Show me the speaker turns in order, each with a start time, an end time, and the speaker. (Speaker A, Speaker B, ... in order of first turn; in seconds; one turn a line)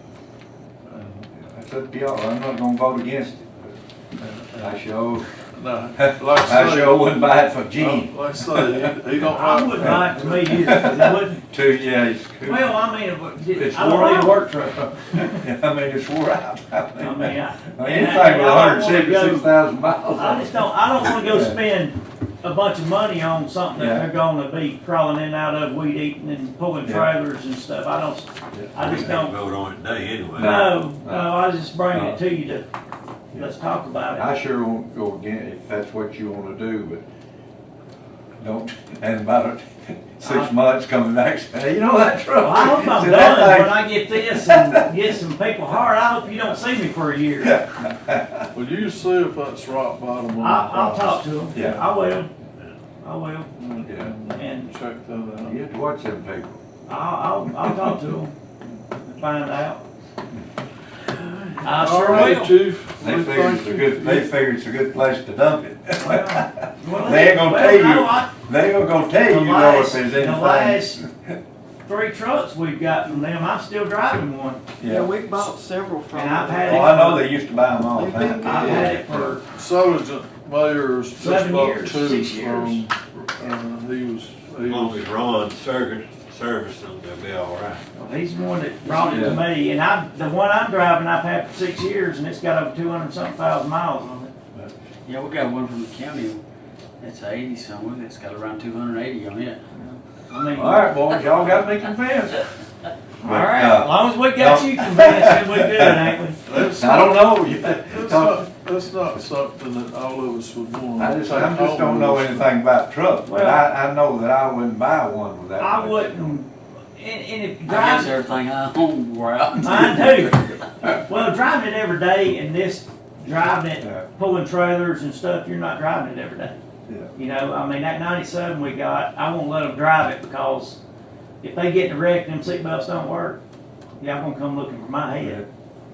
Speaker A: 0.8-1.3
Speaker B: 1.4-3.8
Speaker A: 4.2-4.8
Speaker B: 4.6-5.3
Speaker A: 5.5-7.2
Speaker B: 6.0-8.9
Speaker A: 7.8-11.0
Speaker C: 9.3-11.5
Speaker B: 10.5-12.7
Speaker C: 12.4-15.4
Speaker B: 13.5-14.5
Speaker B: 15.1-21.6
Speaker C: 17.0-29.4
Speaker B: 23.8-24.1
Speaker B: 26.8-27.1
Speaker B: 28.5-29.1
Speaker D: 28.8-30.5
Speaker B: 30.4-31.4
Speaker C: 30.4-32.6
Speaker B: 31.9-32.2
Speaker C: 33.3-34.3
Speaker B: 34.1-37.0
Speaker B: 38.4-44.8
Speaker C: 40.2-40.5
Speaker C: 42.4-47.6
Speaker B: 47.4-48.5
Speaker A: 48.5-51.2
Speaker C: 50.4-52.3
Speaker B: 51.5-51.9
Speaker C: 53.0-53.5
Speaker A: 53.6-55.6
Speaker B: 53.9-54.1
Speaker C: 54.4-54.7
Speaker B: 55.4-56.6
Speaker C: 56.9-58.3
Speaker C: 59.1-59.8
Speaker C: 61.6-62.6
Speaker A: 61.8-64.3
Speaker B: 62.1-62.4
Speaker B: 63.0-71.4
Speaker C: 66.0-68.3
Speaker C: 69.2-71.0
Speaker C: 71.8-74.6
Speaker B: 74.8-75.1
Speaker E: 74.8-76.8
Speaker C: 76.1-77.3
Speaker B: 76.6-79.4
Speaker E: 77.9-78.8
Speaker C: 78.4-79.4
Speaker A: 79.5-85.1
Speaker C: 81.2-82.8
Speaker D: 84.6-87.8
Speaker C: 88.0-94.3
Speaker B: 88.9-89.4
Speaker F: 95.0-96.4
Speaker F: 97.0-99.6
Speaker C: 99.8-101.0
Speaker B: 100.5-102.5
Speaker B: 103.2-108.5
Speaker C: 103.2-106.4
Speaker A: 106.5-112.5
Speaker B: 111.0-116.4
Speaker C: 113.2-113.7
Speaker C: 115.6-118.1
Speaker F: 117.7-120.2
Speaker C: 119.6-126.6
Speaker B: 123.8-124.1
Speaker C: 127.2-130.8
Speaker C: 131.4-133.4
Speaker C: 134.0-135.4
Speaker B: 135.2-135.5